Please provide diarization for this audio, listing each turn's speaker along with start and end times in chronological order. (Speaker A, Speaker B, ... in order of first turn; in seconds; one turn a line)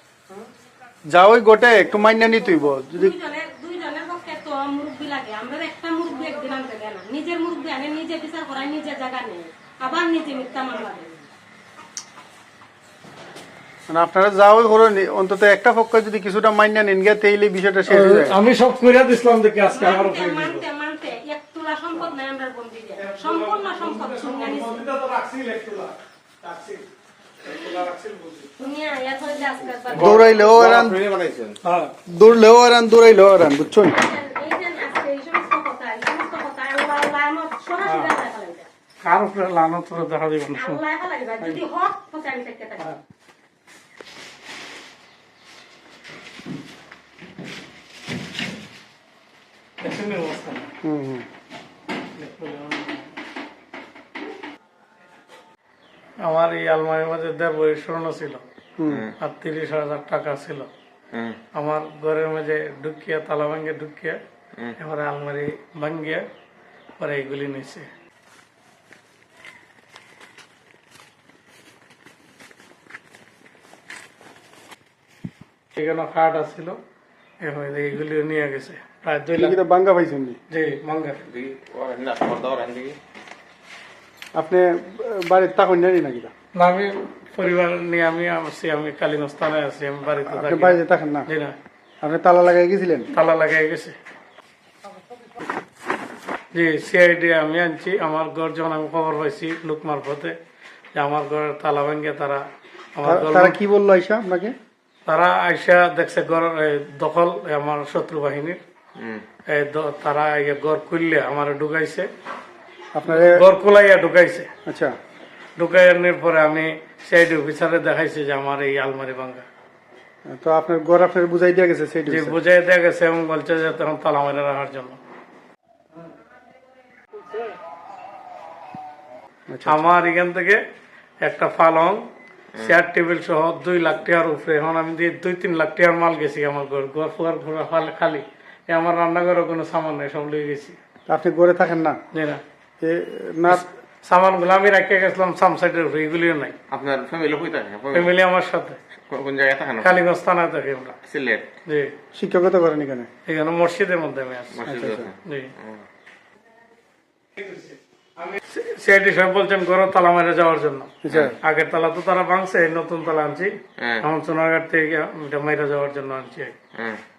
Speaker A: 1.1-3.1
Speaker B: 2.9-11.1
Speaker A: 13.9-18.4
Speaker C: 17.9-20.7
Speaker B: 19.7-24.8
Speaker C: 23.0-26.8
Speaker C: 27.5-28.5
Speaker B: 28.6-30.2
Speaker D: 29.9-31.6
Speaker A: 29.9-31.0
Speaker C: 31.6-31.9
Speaker A: 32.1-34.0
Speaker B: 33.9-38.7
Speaker C: 37.8-38.1
Speaker C: 39.0-40.8
Speaker B: 40.5-42.9
Speaker C: 49.8-50.7
Speaker A: 50.8-51.3
Speaker C: 52.2-53.1
Speaker C: 56.2-58.5
Speaker A: 58.8-59.1
Speaker D: 58.9-59.1
Speaker C: 59.2-60.7
Speaker D: 61.1-61.4
Speaker C: 61.5-64.2
Speaker C: 64.8-66.2
Speaker C: 67.0-67.9
Speaker C: 75.8-76.8
Speaker C: 77.4-79.6
Speaker A: 79.3-80.4
Speaker C: 80.5-81.2
Speaker D: 81.3-83.0
Speaker A: 84.4-86.3
Speaker C: 86.5-91.6
Speaker A: 90.3-91.3
Speaker A: 92.0-93.1
Speaker C: 93.1-94.0
Speaker C: 96.5-100.3
Speaker C: 101.0-103.6
Speaker A: 103.0-104.5
Speaker C: 105.1-108.6
Speaker D: 109.0-109.2
Speaker C: 109.5-112.1
Speaker A: 113.0-113.4
Speaker C: 113.1-114.5
Speaker A: 114.7-114.9
Speaker C: 115.6-119.5
Speaker A: 120.3-122.4
Speaker C: 122.1-125.0
Speaker A: 129.5-129.9
Speaker C: 129.7-130.6
Speaker C: 131.2-132.0
Speaker C: 132.6-140.8
Speaker A: 141.1-142.0
Speaker C: 142.1-142.4
Speaker A: 142.8-143.7
Speaker C: 143.5-146.6
Speaker D: 146.7-148.1
Speaker C: 147.9-148.8
Speaker D: 149.1-150.0
Speaker C: 149.8-151.0
Speaker D: 151.1-151.5
Speaker C: 151.7-151.9
Speaker A: 152.1-153.1
Speaker C: 153.3-154.7
Speaker D: 154.5-155.8
Speaker A: 154.7-155.1
Speaker C: 155.2-155.5
Speaker C: 157.4-166.6
Speaker A: 161.0-161.4
Speaker D: 161.1-161.3
Speaker D: 163.8-164.1